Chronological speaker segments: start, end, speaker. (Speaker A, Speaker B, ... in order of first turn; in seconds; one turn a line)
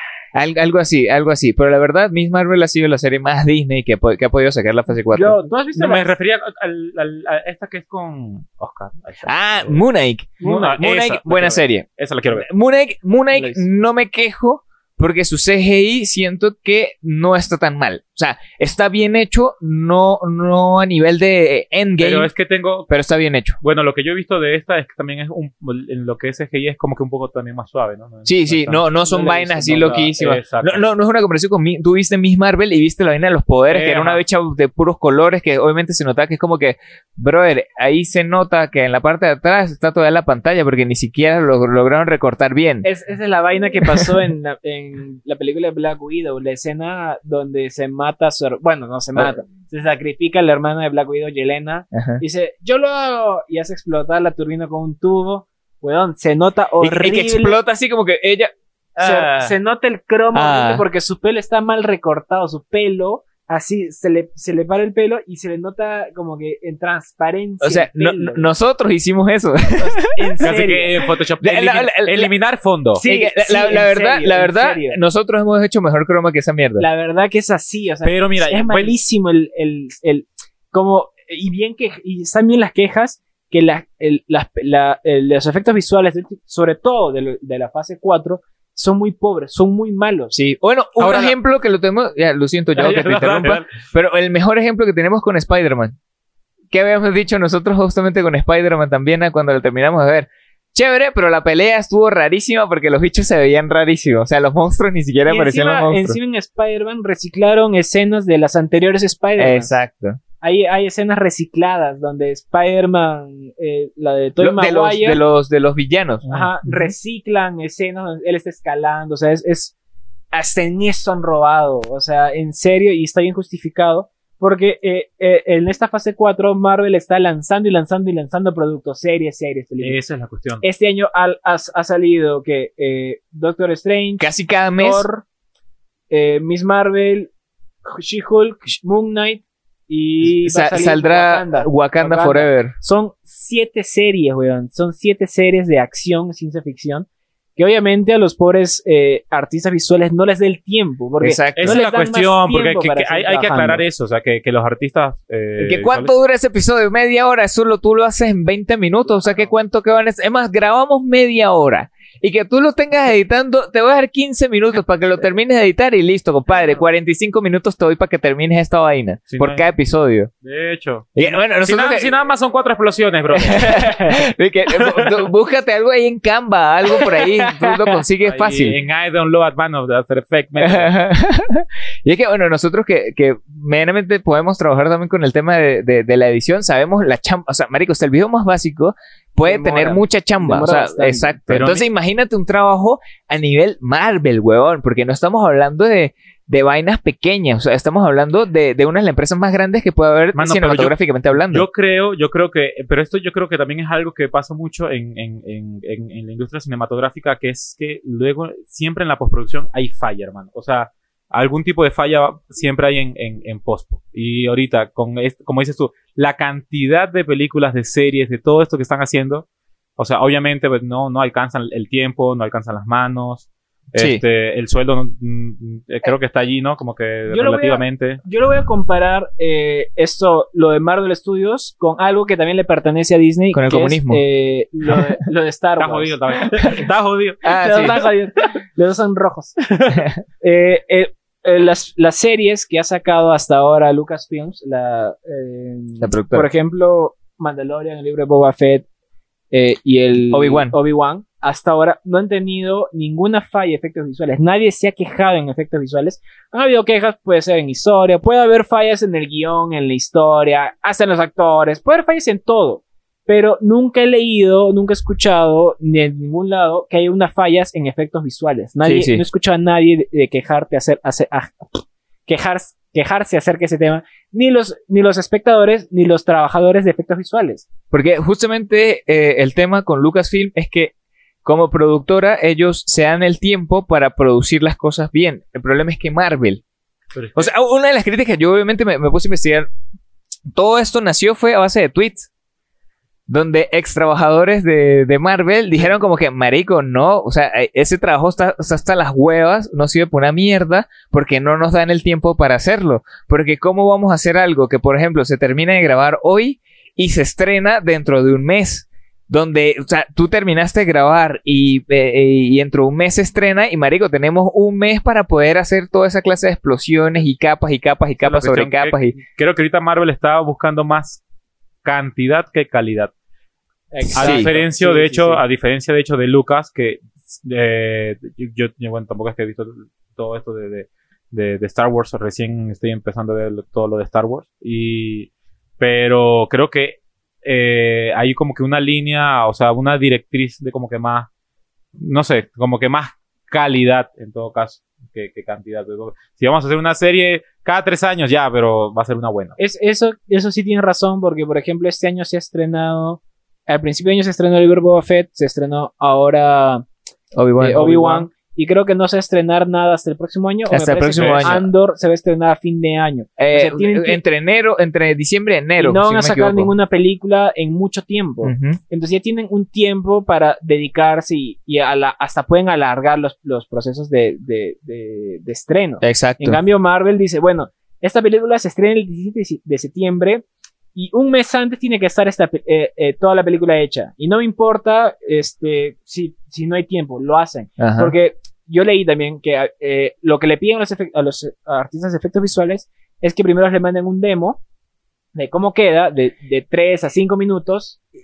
Speaker A: 0.3-5.4
Speaker B: 5.1-6.1
Speaker C: 5.8-9.8
Speaker A: 9.3-22.3
Speaker B: 10.4-10.8
Speaker C: 10.4-12.5
Speaker B: 13.3-13.6
Speaker C: 22.0-22.9
Speaker A: 22.9-23.6
Speaker C: 23.6-28.8
Speaker A: 28.3-42.9
Speaker B: 29.1-30.1
Speaker C: 29.8-30.9
Speaker C: 33.7-34.2
Speaker B: 42.8-57.6
Speaker A: 51.9-52.2
Speaker A: 56.8-59.5
Speaker B: 59.0-68.5
Speaker A: 60.3-60.9
Speaker A: 67.6-70.5
Speaker B: 69.8-71.0
Speaker C: 70.4-73.0
Speaker A: 71.4-72.3
Speaker B: 73.0-75.0
Speaker A: 73.0-76.9
Speaker B: 76.8-90.3
Speaker C: 78.0-78.9
Speaker A: 90.3-96.0
Speaker C: 91.0-91.3
Speaker C: 92.8-93.7
Speaker A: 96.7-106.2
Speaker B: 105.3-109.7
Speaker A: 109.4-110.2
Speaker B: 110.4-115.2
Speaker A: 114.4-116.2
Speaker C: 116.2-116.5
Speaker B: 116.3-119.7
Speaker B: 120.3-130.0
Speaker C: 129.8-130.6
Speaker B: 130.6-135.2
Speaker A: 134.2-135.1
Speaker B: 136.1-137.3
Speaker B: 137.9-153.8
Speaker A: 140.4-142.7
Speaker A: 151.2-151.8
Speaker C: 151.6-156.1
Speaker A: 155.6-170.3
Speaker C: 169.3-169.7
Speaker C: 170.4-173.9
Speaker A: 171.2-172.1
Speaker A: 173.4-178.8
Speaker B: 173.8-174.2
Speaker C: 174.7-175.3
Speaker B: 177.0-177.8
Speaker C: 178.2-180.9
Speaker A: 180.6-201.7
Speaker B: 189.4-191.4
Speaker C: 191.5-191.9
Speaker C: 200.3-219.4
Speaker C: 220.0-228.2
Speaker A: 224.0-224.2
Speaker B: 227.3-236.8
Speaker A: 233.5-234.2
Speaker C: 235.8-237.4
Speaker A: 237.4-238.0
Speaker B: 237.5-248.9
Speaker A: 246.0-246.5
Speaker B: 249.5-277.7
Speaker A: 250.3-250.8
Speaker A: 268.9-269.2
Speaker A: 277.9-280.9
Speaker A: 281.4-286.6
Speaker C: 287.1-287.5
Speaker A: 287.4-289.7
Speaker A: 290.5-292.3
Speaker A: 293.3-319.2
Speaker C: 318.2-321.2
Speaker C: 321.9-323.1
Speaker B: 323.9-325.4
Speaker C: 324.1-341.3
Speaker A: 324.1-324.5
Speaker C: 342.0-349.6
Speaker B: 349.6-356.9
Speaker A: 357.3-358.0
Speaker B: 357.6-364.2
Speaker C: 357.9-358.2
Speaker A: 360.7-361.7
Speaker C: 361.1-361.5
Speaker A: 363.4-366.7
Speaker B: 365.8-394.6
Speaker A: 368.4-368.8
Speaker A: 376.0-376.6
Speaker A: 387.8-388.1
Speaker B: 395.4-398.0